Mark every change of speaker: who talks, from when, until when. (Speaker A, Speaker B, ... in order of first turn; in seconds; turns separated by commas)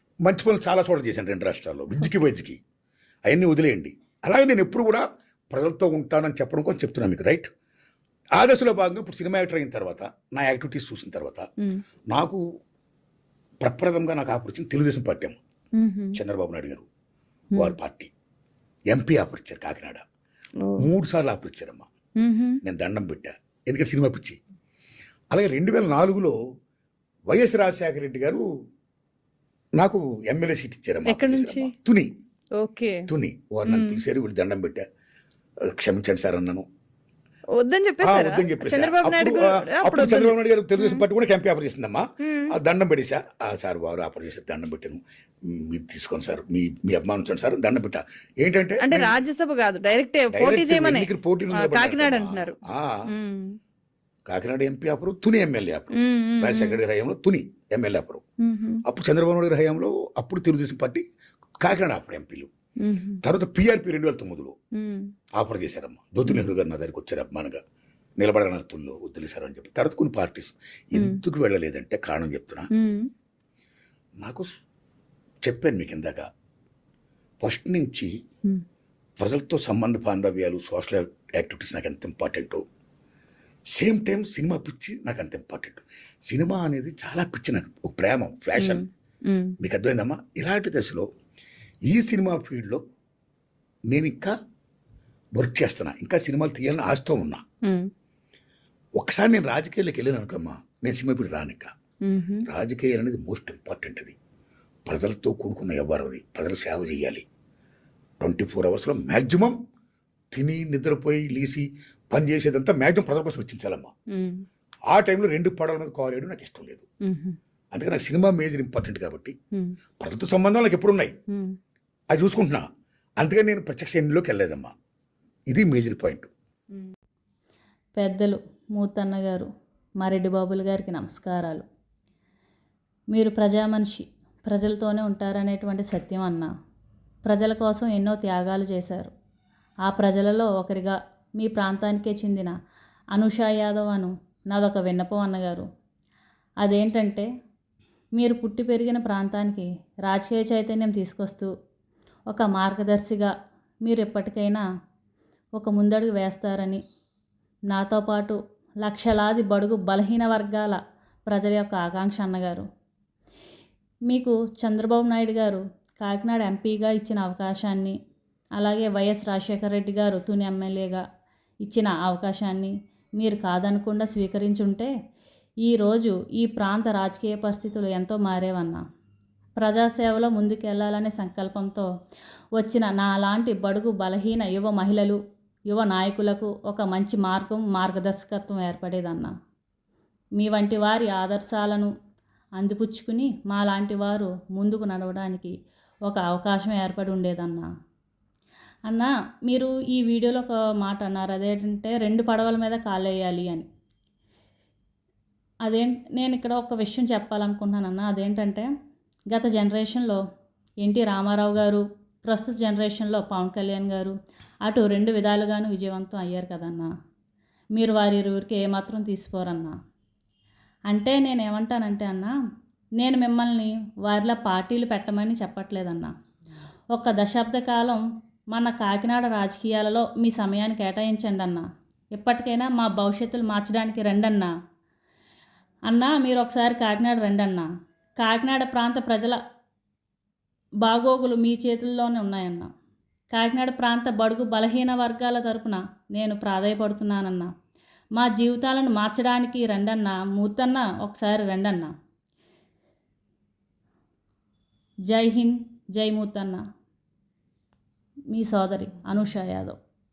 Speaker A: 0.2-2.6, Speaker A: 3.3-7.5, Speaker A: 8.4-11.5, Speaker A: 12.1-12.4, Speaker A: 13.6-15.4, Speaker B: 15.8-16.2, Speaker A: 16.1-16.9, Speaker A: 17.6-18.1, Speaker A: 18.9-20.0, Speaker B: 20.6-20.9, Speaker A: 20.8-21.9, Speaker B: 22.2-22.6, Speaker A: 22.6-24.4, Speaker A: 25.3-26.4, Speaker A: 27.3-28.4, Speaker A: 29.8-32.1, Speaker B: 31.1-31.7, Speaker B: 32.6-33.1, Speaker A: 33.1-34.8, Speaker B: 33.6-34.0, Speaker A: 35.7-36.7, Speaker B: 37.5-41.0, Speaker A: 38.0-49.1, Speaker B: 42.2-42.5, Speaker B: 48.8-52.6, Speaker A: 50.3-53.0, Speaker B: 53.1-53.6, Speaker A: 54.3-58.2, Speaker B: 55.9-56.8, Speaker B: 58.4-58.8, Speaker A: 58.9-61.0, Speaker A: 61.6-62.5, Speaker B: 62.8-63.2, Speaker A: 63.2-64.5, Speaker B: 64.8-65.1, Speaker A: 65.4-67.6, Speaker A: 68.2-72.7, Speaker B: 71.0-71.2, Speaker B: 72.7-73.1, Speaker A: 74.2-74.5, Speaker A: 75.5-76.3, Speaker A: 77.4-78.1, Speaker A: 79.2-82.6, Speaker A: 83.8-88.8, Speaker B: 88.6-89.5, Speaker A: 89.6-91.1, Speaker A: 91.9-92.8, Speaker A: 93.9-94.3, Speaker A: 95.4-97.4, Speaker A: 99.0-101.7, Speaker B: 102.1-102.5, Speaker A: 102.5-104.2, Speaker A: 104.9-107.3, Speaker A: 108.2-109.6, Speaker A: 110.3-113.9, Speaker B: 114.1-114.4, Speaker A: 114.9-116.9, Speaker B: 117.1-117.4, Speaker A: 117.7-119.3, Speaker A: 120.0-121.1, Speaker A: 122.1-122.7, Speaker A: 123.2-124.7, Speaker A: 125.5-126.3, Speaker C: 128.0-129.5, Speaker C: 130.0-131.7, Speaker C: 133.1-136.5, Speaker C: 137.3-139.1, Speaker C: 139.9-142.5, Speaker C: 143.2-145.7, Speaker C: 146.6-147.3, Speaker C: 148.2-151.5, Speaker C: 152.3-153.3, Speaker C: 153.9-154.6, Speaker C: 155.6-156.8, Speaker C: 157.7-162.7, Speaker C: 164.1-168.0, Speaker C: 168.6-171.0, Speaker C: 171.7-174.9, Speaker C: 175.7-178.8, Speaker C: 179.6-181.9, Speaker C: 182.6-189.3, Speaker C: 190.4-191.9, Speaker C: 192.6-195.5, Speaker C: 196.1-197.7, Speaker C: 198.9-203.7, Speaker C: 205.7-208.7, Speaker C: 209.3-210.2, Speaker C: 210.8-214.2, Speaker C: 214.7-216.9, Speaker C: 217.8-219.7, Speaker C: 220.9-222.3, Speaker C: 223.0-226.1, Speaker C: 226.9-228.0, Speaker C: 228.5-234.5, Speaker C: 235.9-237.7, Speaker C: 238.2-239.4, Speaker C: 240.8-242.7, Speaker C: 243.3-247.5, Speaker C: 248.2-251.9, Speaker C: 255.1-256.6, Speaker C: 258.3-259.8